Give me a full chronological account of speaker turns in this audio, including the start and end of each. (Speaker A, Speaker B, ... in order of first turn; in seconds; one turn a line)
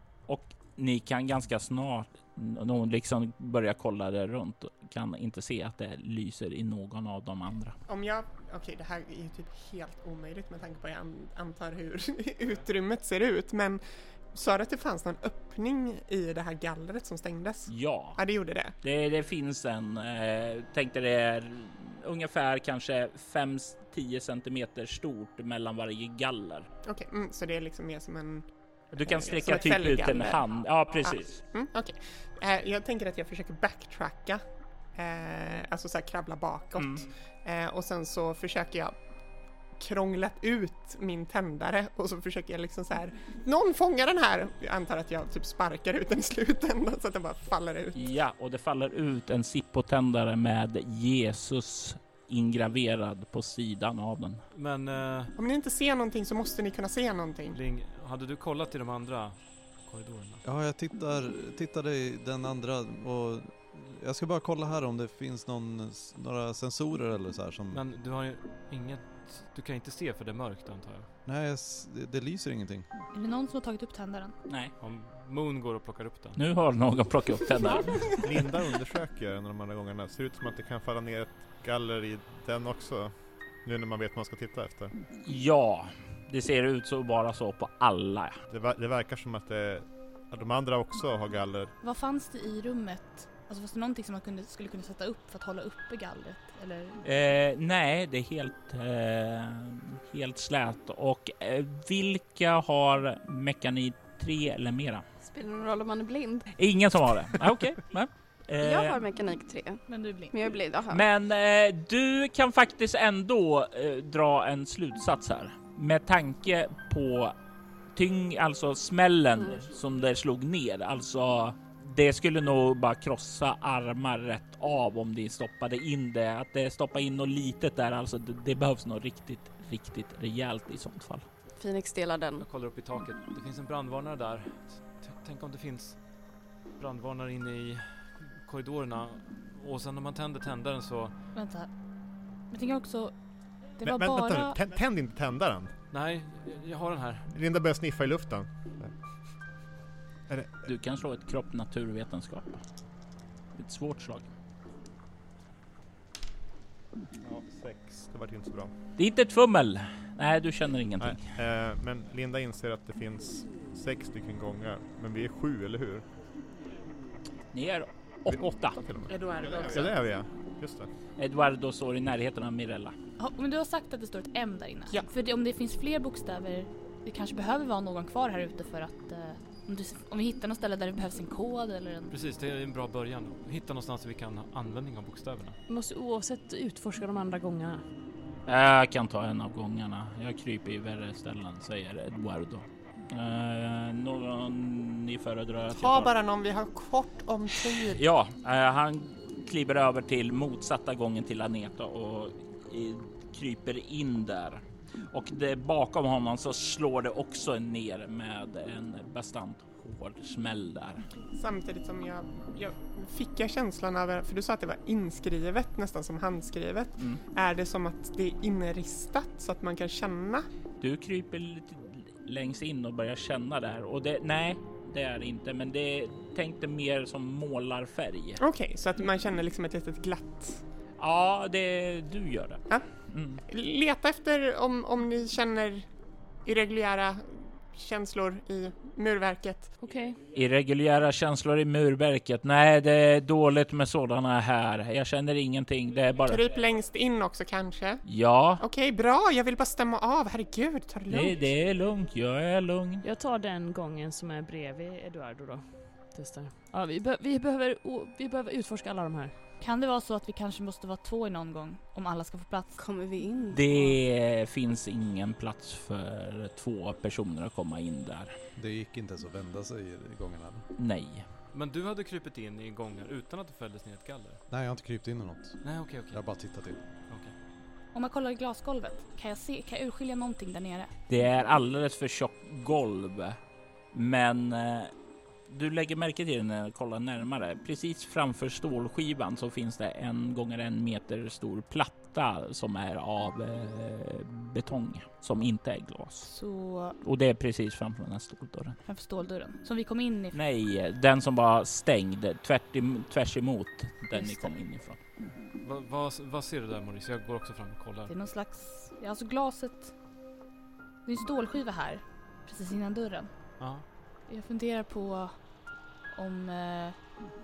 Speaker A: 0.3-7.7
Speaker B: 7.9-18.7
Speaker A: 17.7-18.2
Speaker A: 18.8-26.7
Speaker B: 26.9-30.4
Speaker A: 28.9-31.4
Speaker B: 31.0-34.4
Speaker B: 34.9-39.0
Speaker A: 36.8-37.0
Speaker B: 39.8-48.0
Speaker A: 47.9-54.4
Speaker C: 54.5-55.3
Speaker B: 55.4-57.6
Speaker C: 57.5-60.4
Speaker D: 60.4-67.8
Speaker C: 67.7-71.1
Speaker D: 71.2-72.8
Speaker E: 73.1-74.3
Speaker C: 74.8-76.4
Speaker A: 76.3-78.1
Speaker F: 78.2-84.9
Speaker A: 85.2-88.4
Speaker F: 88.5-91.7
Speaker E: 91.8-97.0
Speaker A: 97.0-105.0
Speaker G: 105.2-106.5
Speaker A: 106.5-109.0
Speaker G: 108.6-111.0
Speaker E: 109.9-110.4
Speaker A: 110.9-117.3
Speaker A: 117.9-131.2
Speaker G: 131.6-132.4
Speaker C: 132.4-136.2
Speaker C: 136.7-141.2
Speaker E: 141.3-141.7
Speaker E: 142.5-143.1
Speaker E: 143.8-144.6
Speaker F: 143.8-145.7
Speaker C: 145.9-147.3
Speaker F: 147.3-148.9
Speaker A: 150.7-152.6
Speaker A: 153.5-154.3
Speaker F: 157.2-158.7
Speaker A: 159.0-161.2
Speaker F: 161.0-166.0
Speaker A: 167.5-168.8
Speaker F: 168.3-170.9
Speaker B: 169.1-170.0
Speaker A: 171.2-172.9
Speaker E: 173.2-182.1
Speaker C: 182.1-185.6
Speaker H: 185.7-187.8
Speaker A: 188.5-196.1
Speaker B: 195.8-198.0
Speaker A: 197.8-211.0
Speaker B: 211.3-220.5
Speaker A: 217.0-217.2
Speaker A: 220.8-228.4
Speaker B: 228.4-230.6
Speaker A: 231.0-233.4
Speaker B: 233.5-235.9
Speaker B: 236.4-239.7
Speaker H: 239.8-240.2
Speaker A: 240.3-246.4
Speaker B: 246.2-248.0
Speaker A: 248.1-248.6
Speaker B: 248.6-251.4
Speaker A: 251.1-253.0
Speaker H: 253.0-259.3
Speaker E: 259.6-262.8
Speaker G: 262.8-264.0
Speaker A: 263.5-268.3
Speaker D: 268.6-270.6
Speaker A: 270.8-271.2
Speaker C: 271.5-274.4
Speaker D: 274.5-276.8
Speaker C: 275.6-276.2
Speaker C: 277.1-277.3
Speaker E: 277.9-280.9
Speaker A: 281.1-283.4
Speaker A: 283.9-284.9
Speaker A: 285.5-296.3
Speaker E: 296.2-297.0
Speaker A: 297.0-298.8
Speaker E: 298.9-300.4
Speaker A: 300.3-305.0
Speaker E: 304.1-304.5
Speaker C: 305.6-308.1
Speaker E: 308.1-309.9
Speaker E: 311.1-313.3
Speaker C: 313.6-313.9
Speaker E: 314.3-315.4
Speaker E: 316.1-317.1